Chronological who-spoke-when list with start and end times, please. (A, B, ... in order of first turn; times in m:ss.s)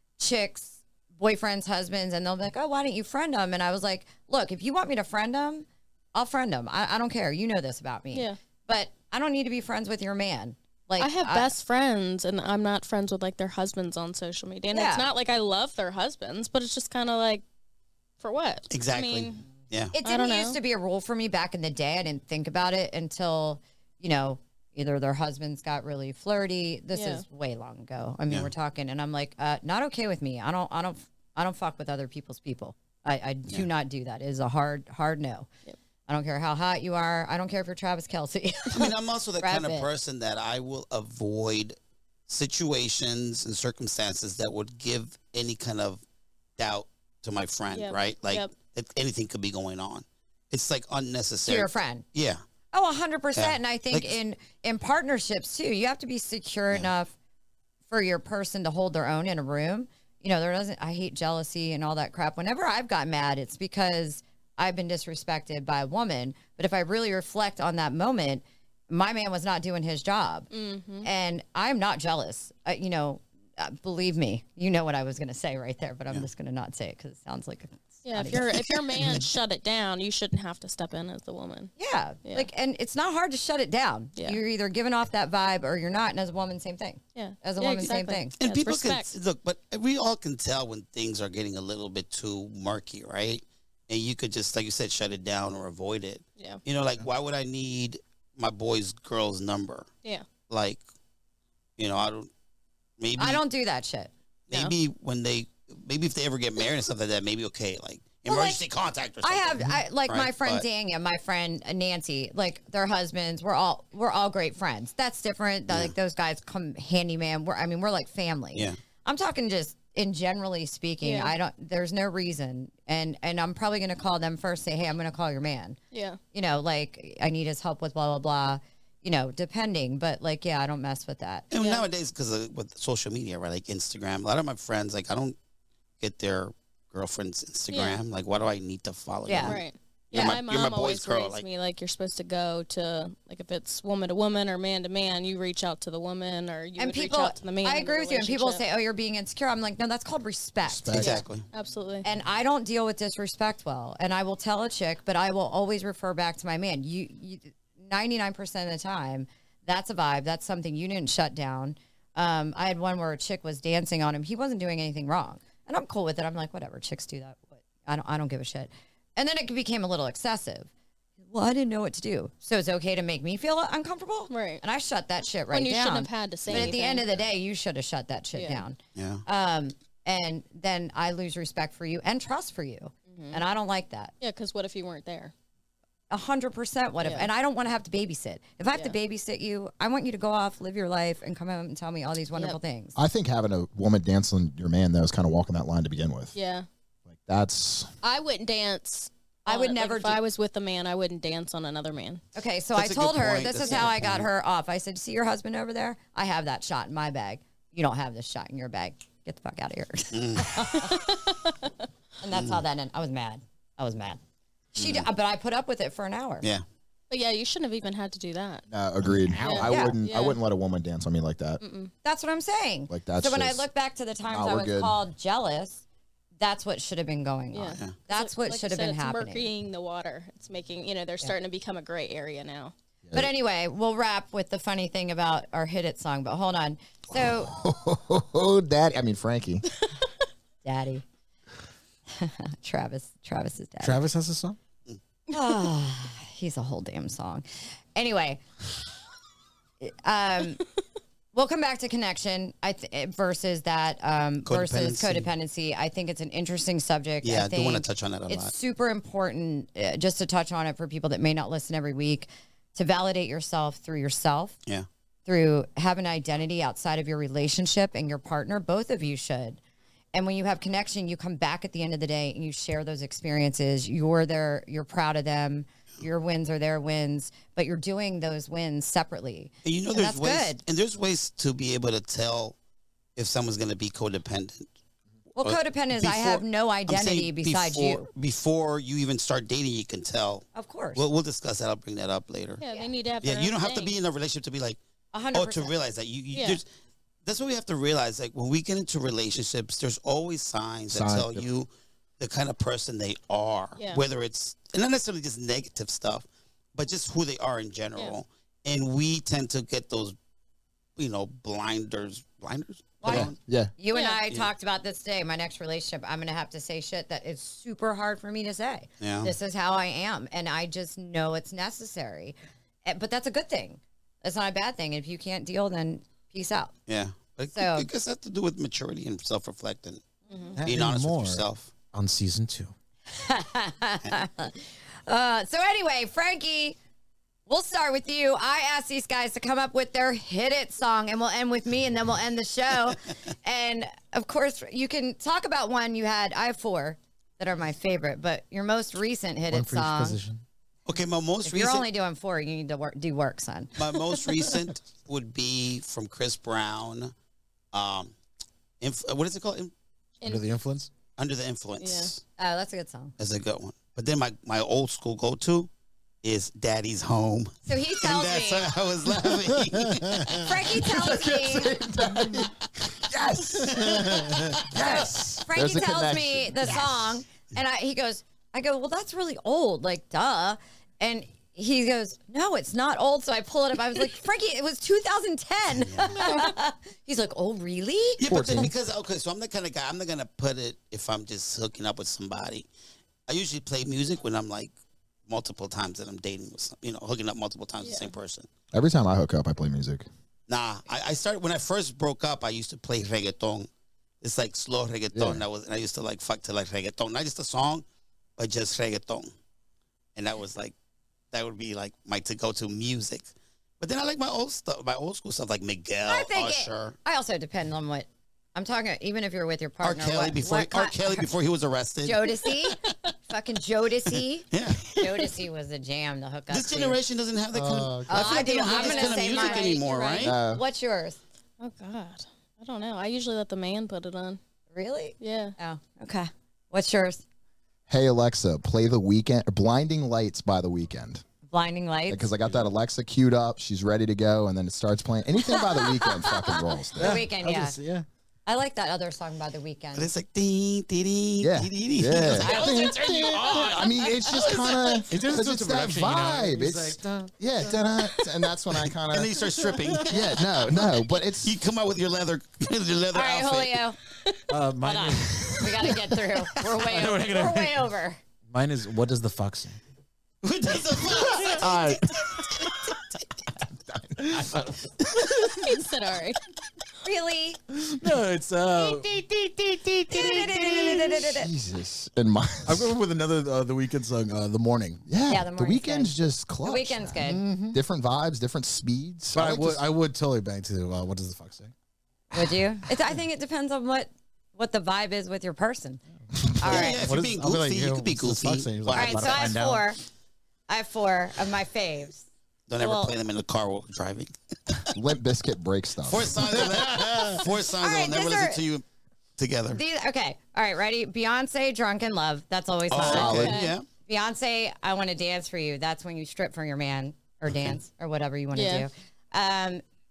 0:00.2-0:11.5 A
0:11.0-0:17.4 B
0:14.7-0:15.1 A
0:18.2-0:19.4 B
0:18.7-0:19.9 C
0:19.9-0:35.5 A
0:20.0-0:20.6 B
0:26.9-0:27.2 B
0:36.1-0:39.9 A
0:38.7-0:41.8 C
0:42.3-0:46.0 C
0:46.6-0:52.4 C
0:47.7-0:48.5 B
0:51.4-0:52.0 A
0:52.7-0:57.1 A
0:53.4-0:54.1 C
0:57.9-1:19.1 A
1:10.5-1:11.1 B
1:18.0-1:21.7 B
1:21.8-1:28.3 A
1:27.1-1:29.1 B
1:28.4-1:39.9 C
1:36.4-1:36.6 B
1:40.5-1:40.8 C
1:41.8-1:42.3 C
1:43.0-1:43.4 C
1:43.2-1:44.1 A
1:44.5-1:50.6 C
1:48.2-1:48.6 A
1:49.2-2:05.8 A
1:55.7-1:55.9 C
2:01.0-2:01.3 B
2:05.9-2:06.2 B
2:06.3-2:11.4 A
2:11.5-2:15.4 C
2:11.6-2:11.9 B
2:16.0-2:21.4 C
2:17.7-2:18.0 B
2:19.3-2:19.6 A
2:19.4-2:28.6 B
2:26.8-2:31.2 A
2:30.6-2:31.2 D
2:30.9-2:31.4 C
2:31.0-2:32.1 B
2:32.0-2:50.7 A
2:51.3-3:04.1 A
2:54.3-2:54.6 B
2:55.5-2:57.1 B
2:56.5-2:56.7 C
2:58.3-2:58.6 B
2:58.9-2:59.2 C
3:03.1-3:03.4 B
3:04.2-3:05.3 B
3:06.1-3:13.0 A
3:07.0-3:07.3 B
3:13.0-3:16.3 D
3:16.3-3:16.6 B
3:17.1-3:17.9 D
3:18.0-3:22.2 B
3:19.4-3:20.2 A
3:22.3-3:31.2 A
3:22.8-3:24.3 C
3:30.1-3:30.6 C
3:30.8-3:31.7 B
3:32.2-3:34.2 A
3:32.3-3:32.6 C
3:34.8-3:35.1 C
3:34.8-3:36.5 A
3:37.1-3:38.6 B
3:38.7-3:41.6 D
3:39.4-3:40.4 B
3:39.6-3:39.9 A
3:41.6-3:41.9 B
3:42.0-3:45.8 A
3:42.9-3:43.6 D
3:44.3-3:44.9 D
3:46.4-3:49.5 A
3:47.5-3:52.7 B
3:53.1-3:57.5 A
3:57.1-3:59.6 D
4:00.6-4:01.0 A
4:02.1-4:04.0 A
4:03.8-4:04.6 E
4:05.3-4:08.4 A
4:09.8-4:10.6 A
4:11.3-4:24.6 A
4:14.4-4:15.3 C
4:17.2-4:18.5 C
4:25.2-4:29.6 A
4:30.1-4:40.6 A
4:39.6-4:42.6 C
4:43.2-4:44.7 C
4:45.3-4:48.1 A
4:45.4-4:52.6 C
4:50.5-4:51.0 A
4:52.6-4:53.9 B
4:52.6-4:52.9 A
4:53.2-4:54.8 C
4:55.1-4:55.7 A
4:55.3-4:56.7 C
4:56.3-4:56.6 B
4:57.2-5:10.1 C
5:00.9-5:01.5 D
5:03.8-5:04.0 B
5:11.0-5:13.4 C
5:13.0-5:22.3 A
5:13.0-5:13.7 D
5:13.9-5:14.2 B
5:19.0-5:19.3 C
5:22.8-5:26.7 A
5:26.9-5:30.0 C
5:27.5-5:27.9 A
5:30.3-5:30.6 B
5:30.6-5:32.7 E
5:30.6-5:31.7 C
5:33.1-5:36.8 A
5:37.5-5:50.2 A
5:49.5-5:50.4 E
5:50.8-5:51.8 C
5:51.4-5:53.7 A
5:53.8-5:57.1 C
5:57.7-5:58.1 C
5:58.8-5:59.7 C
6:00.2-6:00.9 E
6:01.2-6:02.2 C
6:01.8-6:02.1 B
6:02.4-6:03.1 A
6:03.2-6:05.7 C
6:06.2-6:10.5 C
6:07.6-6:08.7 A
6:10.4-6:11.8 A
6:10.6-6:17.2 D
6:13.7-6:14.6 C
6:13.9-6:14.2 E
6:14.7-6:28.2 A
6:25.8-6:26.3 C
6:28.2-6:32.7 C
6:28.2-6:28.7 D
6:33.3-6:34.7 C
6:35.3-6:38.5 C
6:37.8-6:38.1 B
6:38.7-6:40.0 D
6:40.5-6:43.7 C
6:44.2-6:47.8 C
6:45.1-6:45.4 D
6:48.4-6:49.3 C
6:50.2-6:50.7 C
6:51.3-6:57.0 C
6:56.0-7:01.3 A
6:59.8-7:02.3 C
7:02.0-7:07.0 A
7:04.5-7:05.3 C
7:06.5-7:10.3 C
7:07.5-7:08.4 E
7:08.1-7:11.2 A
7:08.3-7:09.8 B
7:10.2-7:10.6 D
7:11.6-7:14.4 B
7:14.7-7:17.2 A
7:15.2-7:15.5 B
7:17.9-7:21.2 D
7:21.5-7:22.3 A
7:22.1-7:27.2 D
7:25.5-7:27.8 A
7:27.0-7:28.0 E
7:28.4-7:30.1 A
7:29.9-7:35.3 C
7:31.4-7:39.4 D
7:32.3-7:33.0 A
7:35.1-7:38.0 E
7:39.1-7:40.8 C
7:39.4-7:40.2 E
7:40.1-7:41.6 D
7:41.4-7:43.9 C
7:43.1-7:44.0 A
7:44.5-7:47.9 E
7:44.8-7:48.2 A
7:48.5-7:49.8 E
7:50.4-7:53.0 C
7:51.2-7:52.0 E
7:51.5-7:52.1 D
7:53.9-7:54.7 D
7:54.2-7:55.5 E
7:55.3-7:56.4 B
7:57.0-7:57.6 A
7:57.7-8:01.0 E
7:58.7-7:59.2 D
7:59.8-8:02.9 D
8:00.1-8:01.5 A
8:02.6-8:05.1 E
8:05.1-8:09.8 D
8:05.3-8:06.1 A
8:06.6-8:07.4 A
8:07.2-8:07.8 E
8:09.3-8:11.7 E
8:12.3-8:16.0 A
8:16.5-8:19.8 E
8:16.6-8:17.0 A
8:16.6-8:19.6 C
8:18.9-8:20.0 A
8:20.7-8:22.2 A
8:22.7-8:24.9 C
8:22.8-8:23.1 A
8:24.9-8:26.4 D
8:26.0-8:28.8 C
8:26.4-8:27.4 E
8:27.8-8:28.6 A
8:29.4-8:29.8 C
8:29.7-8:39.8 A
8:32.9-8:33.8 C
8:33.0-8:33.6 D
8:33.0-8:33.8 B
8:38.5-8:38.9 B